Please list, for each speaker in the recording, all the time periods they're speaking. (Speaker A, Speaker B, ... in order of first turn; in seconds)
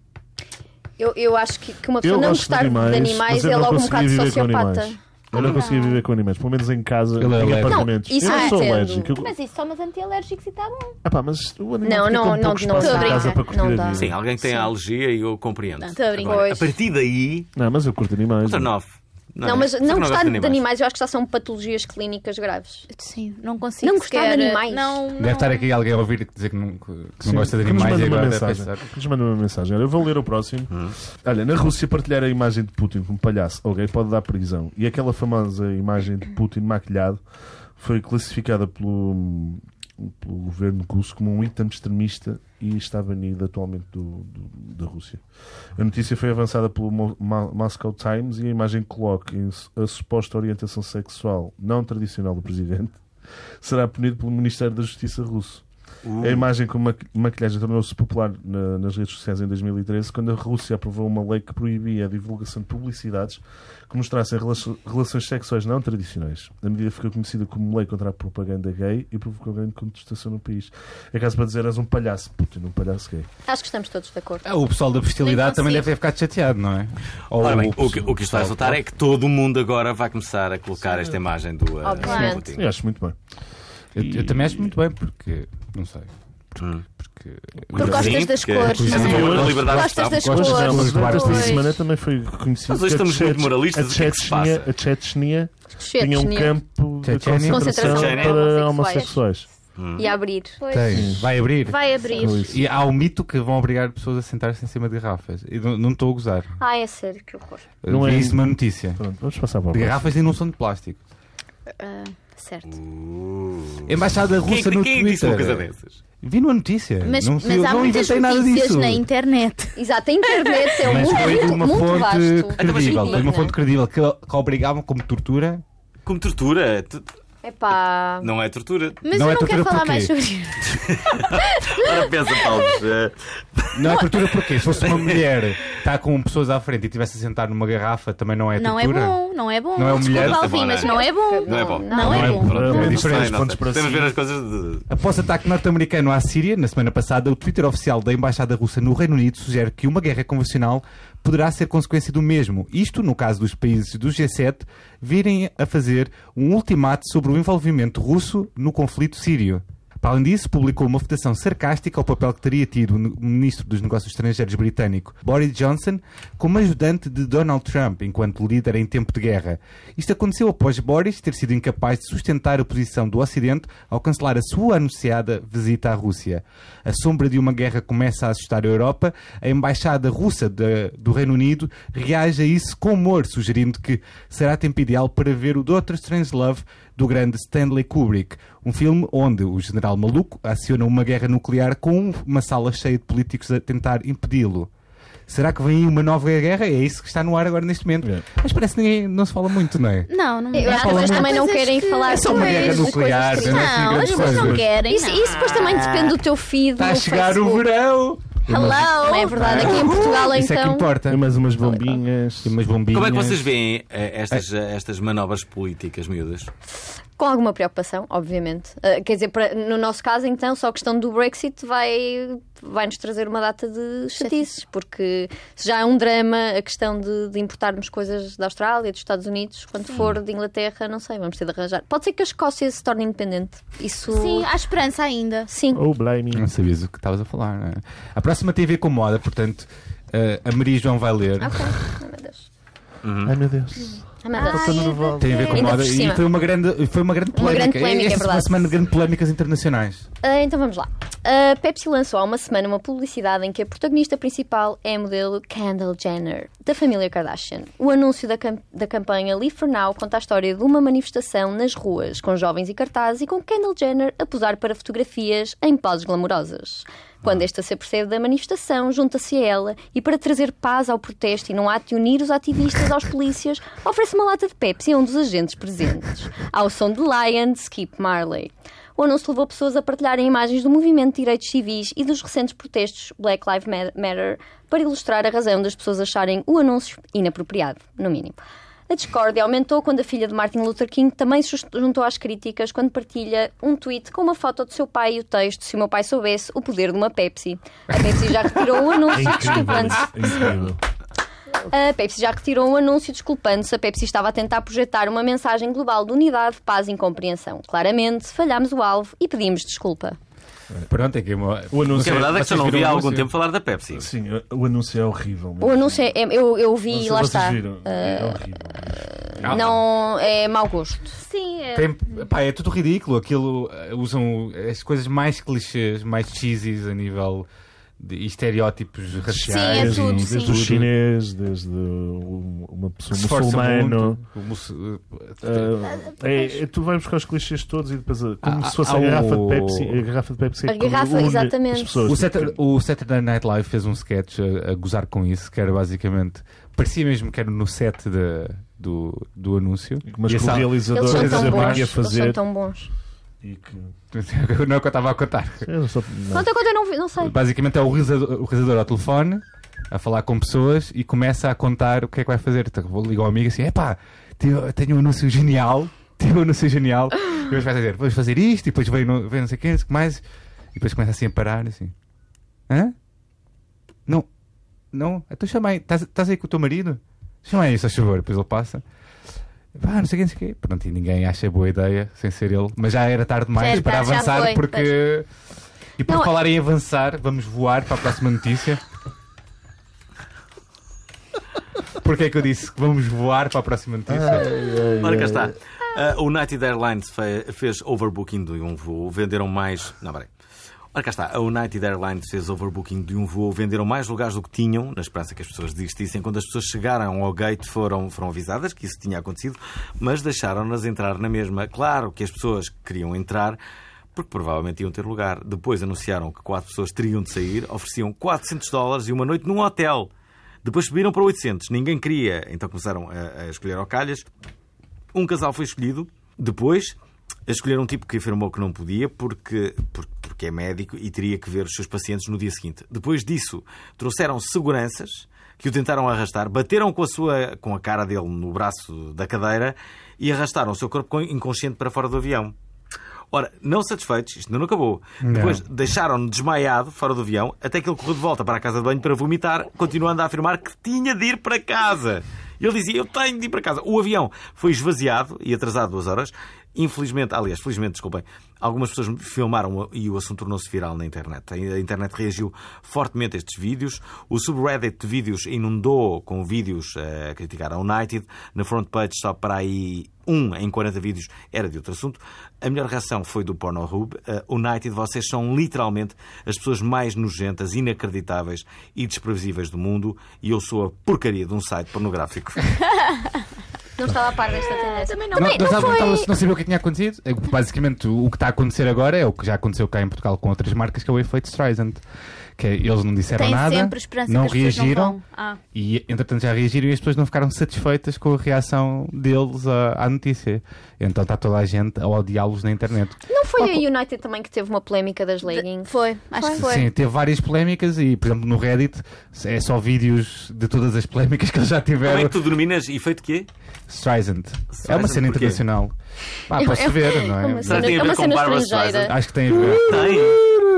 Speaker A: 1.0-5.6, 7.7-9.2, 11.8-14.1, 16.2-16.7, 19.4-22.9, 23.8-25.1, 73.5-74.5, 81.8-82.5, 95.8-96.6, 97.5-99.2, 100.0-100.6, 106.6-107.7, 112.4-112.7, 119.8-123.5, 127.4-128.3, 140.8-142.4, 200.5-207.7, 209.0-210.9, 217.2-234.5, 235.5-235.8, 241.4-242.5, 244.2-246.3, 247.3-248.7, 250.2-300.6, 301.7-310.2, 315.6-318.4, 319.3-321.2, 340.7-342.1, 350.9-352.9, 356.3-357.3, 484.0-486.2, 503.3-506.7, 516.6-519.1
Speaker B: 2.0-9.3, 11.0-14.2, 17.6-18.7, 27.2-37.2, 37.8-45.2, 45.8-53.0, 53.6-55.7, 56.2-73.3, 82.5-83.2, 84.0-84.8, 87.8-88.3, 88.9-99.5, 100.9-101.3, 102.1-102.6, 107.9-110.1, 142.3-144.2, 204.3-204.6, 208.5-208.8, 211.1-212.5, 235.7-236.5, 243.2-245.7, 299.1-300.8, 311.7-312.4, 314.0-316.0, 316.9-319.3, 329.3-334.2, 335.4-342.5, 350.1-352.4, 353.4-353.9, 355.7-356.5, 394.1-395.6
Speaker C: 5.3-6.0, 8.2-11.0, 12.8-13.4, 15.8-16.5, 22.9-25.7, 75.2-75.9, 82.0-82.4, 87.7-91.8, 100.0-102.5, 111.8-112.1, 117.0-119.8, 120.3-121.4, 129.0-132.7, 138.6-143.1, 200.1-205.4, 208.5-210.0, 224.2-224.4, 234.1-235.5, 244.4-244.8, 321.1-321.9, 329.5-330.7, 336.0-336.6, 383.6-384.9, 482.9-483.4, 484.7-486.3, 493.4-495.6, 505.5-506.9
Speaker D: 7.2-7.9, 25.2-28.9, 74.4-78.8, 84.0-86.1, 87.0-91.7, 97.0-97.8, 100.7-106.5, 107.8-109.0, 109.7-111.0, 113.9-115.7, 116.2-119.0, 120.8-125.6, 129.1-130.1, 133.8-139.2, 139.8-140.6, 142.0-143.4, 144.9-194.7, 195.3-201.5, 202.1-204.7, 206.8-208.8, 209.3-211.8, 212.4-213.5, 236.3-241.8, 245.2-250.1, 310.9-313.3, 319.4-319.8, 321.7-327.5, 328.0-330.9, 333.1-335.7, 338.4-340.0, 342.1-351.9, 354.1-355.7, 357.2-370.2, 370.7-371.9, 372.7-372.9, 374.9-378.8, 379.8-385.3, 386.0-388.8, 392.0-394.5, 445.2-445.6, 485.3-492.0, 492.6-495.2, 495.7-503.8, 506.6-512.4, 513.9-516.0, 516.5-518.2, 519.0-520.2
Speaker E: 13.9-17.5, 18.4-20.6, 30.7-30.9, 56.0-56.5, 77.4-82.7, 86.6-86.8, 87.8-90.3, 92.7-94.7, 97.8-98.4, 99.8-100.1, 112.7-116.0, 122.6-123.4, 126.1-127.1, 128.2-129.0, 130.7-135.3, 139.9-144.9, 205.3-206.2, 212.9-216.5, 243.0-243.4, 312.0-314.1, 395.0-400.3, 400.9-413.6, 414.1-420.1, 420.6-424.3, 425.1-427.0, 427.5-442.5, 443.3-482.8, 512.0-513.5, 514.7-515.6, 517.7-520.5